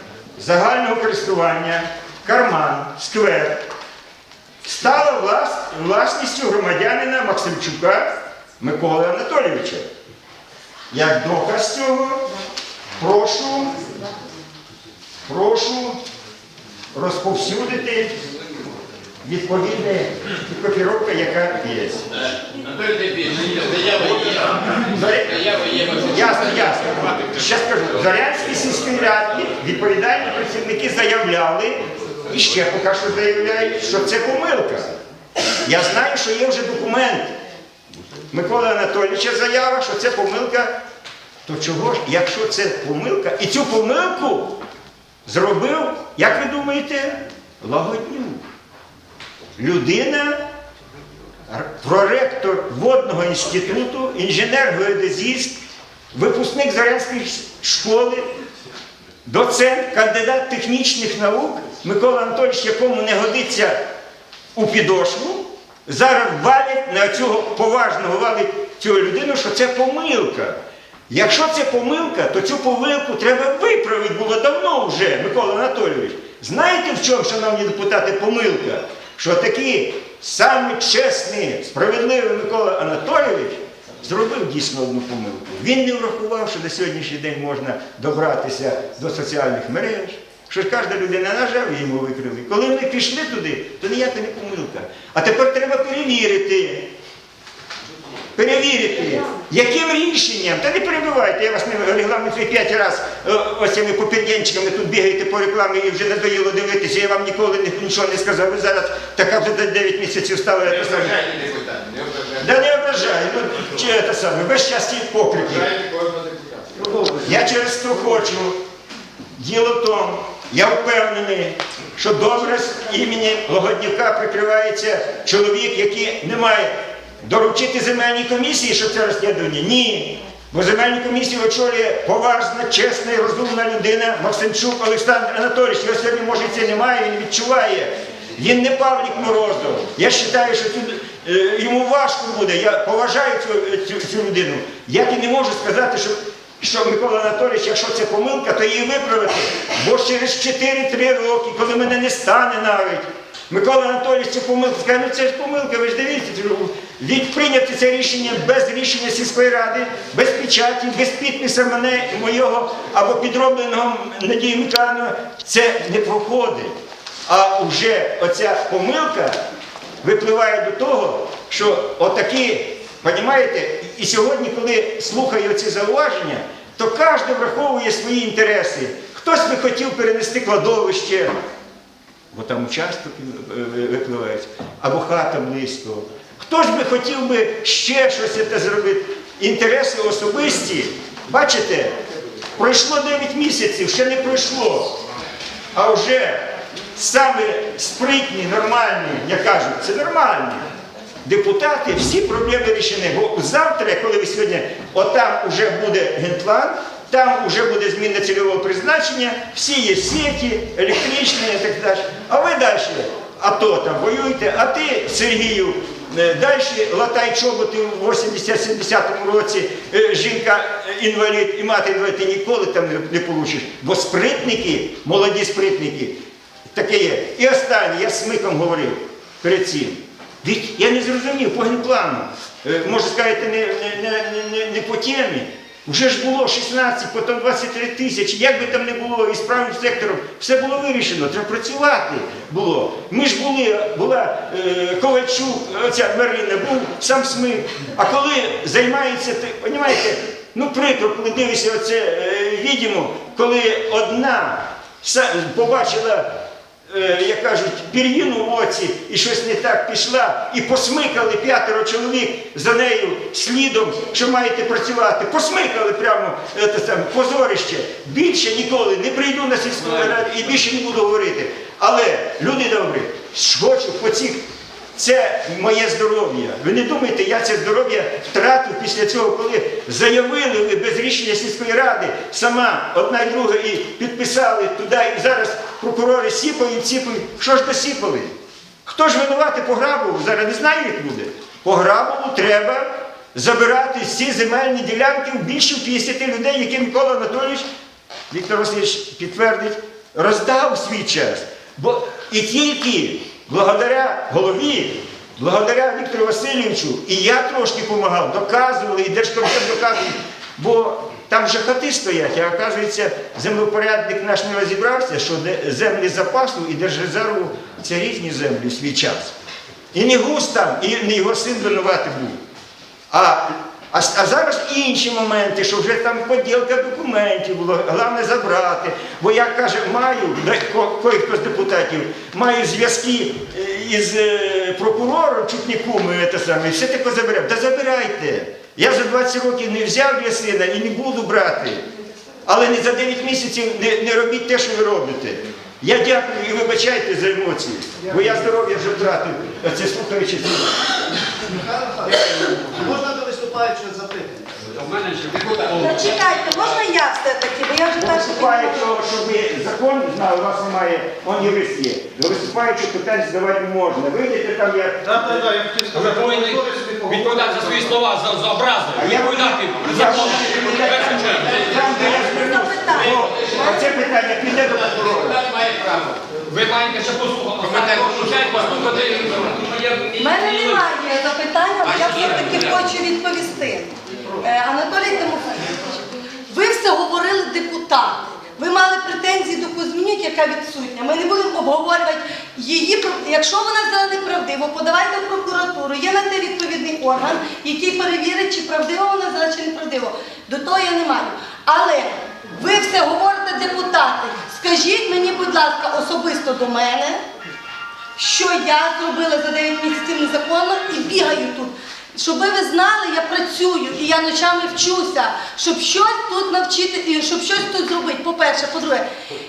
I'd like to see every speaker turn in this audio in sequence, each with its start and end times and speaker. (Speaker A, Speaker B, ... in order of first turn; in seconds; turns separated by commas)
Speaker A: 0.4-3.7, Speaker A: 4.6-9.8, Speaker A: 10.9-12.2, Speaker A: 13.0-13.8, Speaker A: 15.3-16.0, Speaker A: 16.9-18.1, Speaker A: 19.2-22.0, Speaker B: 22.7-24.7, Speaker A: 24.8-35.0, Speaker B: 25.4-26.1, Speaker A: 35.6-37.4, Speaker A: 38.3-40.7, Speaker A: 41.5-44.6, Speaker A: 45.3-48.5, Speaker A: 49.6-50.4, Speaker A: 51.5-55.6, Speaker A: 56.1-58.3, Speaker A: 59.3-63.8, Speaker A: 64.5-70.6, Speaker A: 71.1-96.9, Speaker A: 98.3-111.2, Speaker B: 111.1-112.3, Speaker A: 112.3-115.7, Speaker B: 115.7-116.7, Speaker C: 116.8-117.4, Speaker A: 117.2-118.6, Speaker A: 119.4-166.7, Speaker A: 167.3-169.4, Speaker A: 170.0-181.3, Speaker A: 182.3-192.0, Speaker A: 192.6-195.0, Speaker A: 195.7-200.7, Speaker A: 201.2-256.3, Speaker A: 256.9-274.4, Speaker A: 274.9-297.7, Speaker A: 298.3-319.3, Speaker A: 319.9-322.4, Speaker A: 323.1-341.9, Speaker A: 342.5-350.8, Speaker C: 348.0-348.4, Speaker C: 351.5-354.5, Speaker D: 354.7-356.0, Speaker E: 355.8-359.0, Speaker A: 358.0-365.3, Speaker C: 365.0-367.9, Speaker D: 365.9-371.9, Speaker A: 369.0-375.4, Speaker B: 371.8-372.1, Speaker E: 371.9-374.1, Speaker B: 375.4-376.2, Speaker D: 376.5-380.9, Speaker B: 377.7-378.9, Speaker E: 380.2-407.2, Speaker E: 408.2-419.1